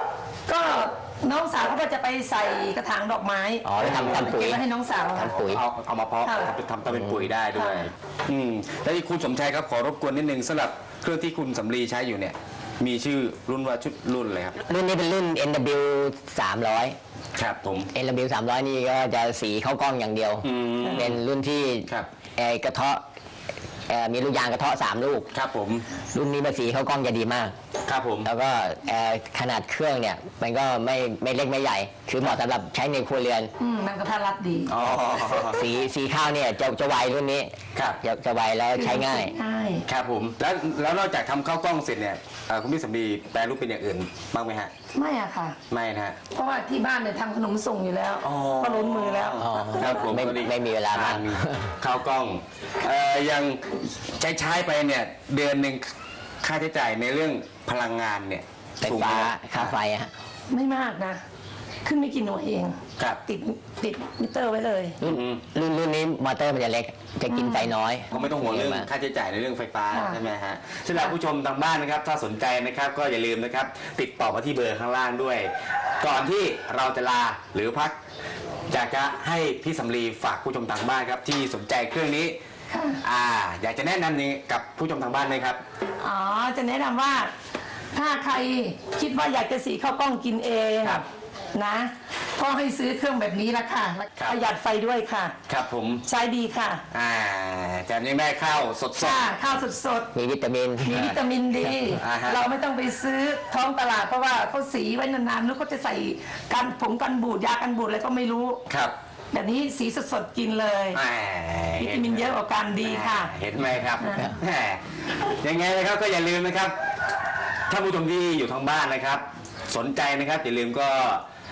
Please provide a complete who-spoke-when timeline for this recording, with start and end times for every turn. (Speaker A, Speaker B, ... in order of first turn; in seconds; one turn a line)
Speaker A: 0.5-5.3
Speaker B: 3.6-4.6
Speaker C: 3.8-4.4
Speaker B: 5.1-5.6
Speaker C: 5.1-14.6
Speaker A: 6.2-6.5
Speaker B: 6.9-7.3
Speaker A: 7.5-7.9
Speaker B: 14.6-17.0
Speaker C: 17.4-17.9
Speaker B: 17.9-23.0
Speaker C: 20.4-21.2
Speaker B: 23.9-25.3
Speaker C: 25.3-25.9
Speaker B: 26.1-27.6
Speaker C: 27.9-28.3
Speaker B: 28.2-33.5
Speaker A: 33.6-34.7
Speaker C: 34.7-35.6
Speaker B: 35.5-39.3
Speaker A: 38.7-39.8
Speaker C: 39.9-44.7
Speaker A: 44.9-45.6
Speaker C: 45.7-46.2
Speaker A: 46.3-50.0
Speaker C: 48.2-59.7
Speaker B: 49.4-51.8
Speaker B: 58.8-60.1
Speaker A: 60.5-61.2
Speaker A: 61.8-65.0
Speaker B: 65.0-68.9
Speaker C: 65.0-65.4
Speaker A: 67.3-68.3
Speaker C: 68.1-78.0
Speaker A: 69.9-70.2
Speaker C: 78.7-82.4
Speaker A: 82.7-83.0
Speaker C: 83.0-85.6
Speaker A: 86.0-87.3
Speaker A: 87.9-95.3
Speaker C: 95.5-96.0
Speaker A: 96.0-96.8
Speaker C: 96.9-99.3
Speaker A: 98.9-100.1
Speaker B: 100.1-101.1
Speaker C: 100.8-101.2
Speaker A: 100.8-108.6
Speaker C: 102.0-102.5
Speaker C: 108.7-108.9
Speaker A: 109.3-111.0
Speaker C: 110.9-121.2
Speaker A: 111.8-113.3
Speaker A: 114.0-114.3